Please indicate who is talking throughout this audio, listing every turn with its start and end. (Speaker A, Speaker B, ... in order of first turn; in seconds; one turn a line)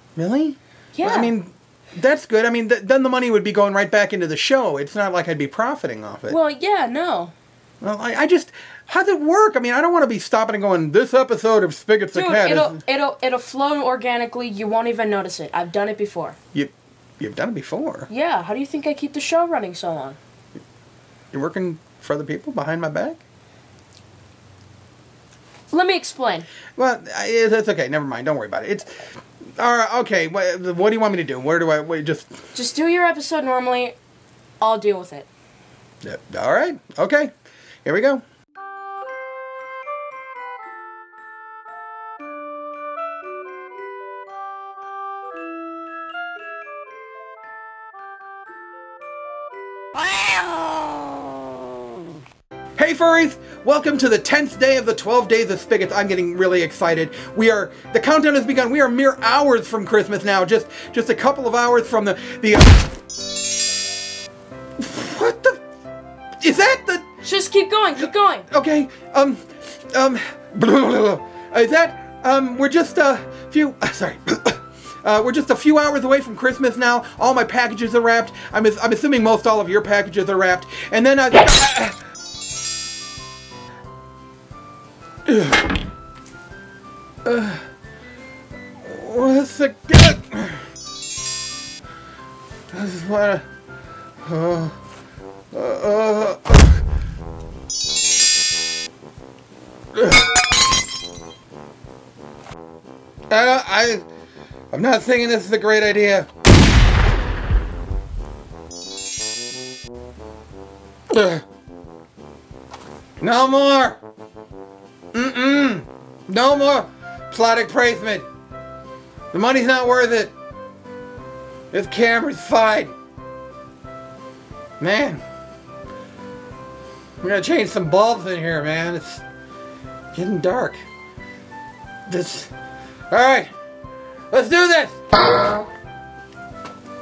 Speaker A: 0.1-6.4
Speaker B: 0.9-1.3
Speaker B: 6.3-7.3
Speaker A: 7.8-12.8
Speaker B: 12.1-16.4
Speaker A: 16.5-18.1
Speaker B: 18.1-20.2
Speaker A: 21.3-23.2
Speaker B: 25.7-26.5
Speaker A: 26.8-32.4
Speaker B: 32.5-34.0
Speaker B: 34.6-35.3
Speaker A: 36.0-37.3
Speaker A: 37.8-38.2
Speaker A: 52.8-62.8
Speaker A: 64.8-65.6
Speaker A: 66.4-67.0
Speaker B: 67.2-68.5
Speaker A: 68.0-82.0
Speaker A: 85.2-85.6
Speaker A: 87.2-87.6
Speaker A: 88.8-90.6
Speaker A: 92.7-93.4
Speaker A: 94.2-94.7
Speaker A: 95.5-96.8
Speaker A: 99.9-100.3
Speaker A: 103.3-104.0
Speaker A: 104.7-106.3
Speaker A: 111.1-111.4
Speaker A: 113.2-114.0
Speaker A: 115.1-118.2
Speaker A: 119.3-120.3
Speaker A: 121.7-122.9
Speaker A: 124.8-125.2
Speaker A: 127.2-129.2
Speaker A: 130.1-130.8
Speaker A: 132.1-132.5
Speaker A: 133.1-133.5
Speaker A: 134.3-135.0